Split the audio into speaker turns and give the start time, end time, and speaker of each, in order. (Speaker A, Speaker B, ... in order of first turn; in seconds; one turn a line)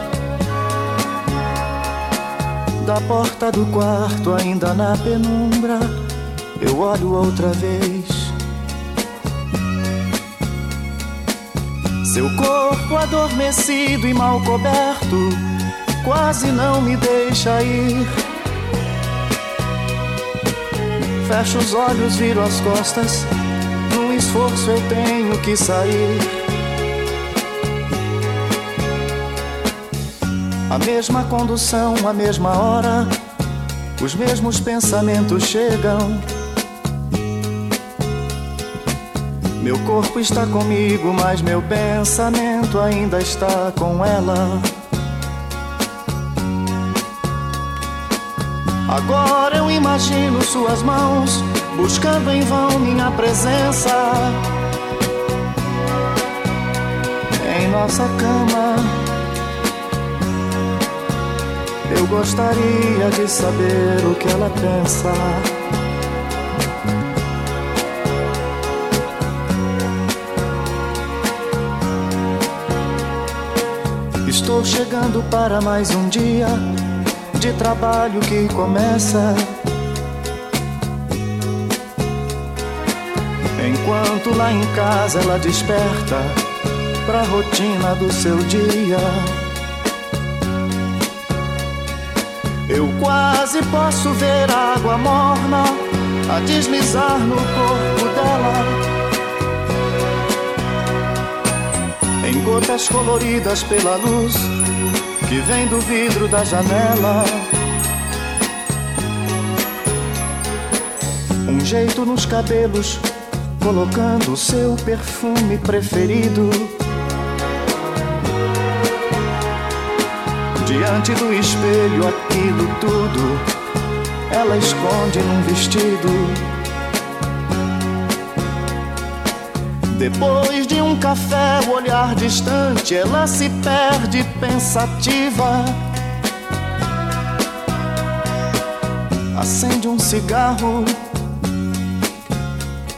Speaker A: 2.8-6.0
Speaker A: 6.6-8.4
Speaker A: 12.0-15.5
Speaker A: 16.0-18.1
Speaker A: 21.2-23.3
Speaker A: 23.9-26.4
Speaker A: 30.7-33.1
Speaker A: 34.0-36.3
Speaker A: 39.6-44.7
Speaker A: 48.9-54.4
Speaker A: 57.4-59.1
Speaker A: 61.9-65.5
Speaker A: 74.2-76.7
Speaker A: 77.3-79.5
Speaker A: 83.5-86.4
Speaker A: 87.0-89.4
Speaker A: 92.7-98.8
Speaker A: 102.2-104.5
Speaker A: 105.2-107.5
Speaker A: 111.4-113.0
Speaker A: 113.6-116.8
Speaker A: 120.6-123.4
Speaker A: 124.3-126.5
Speaker A: 129.9-135.8
Speaker A: 139.3-141.0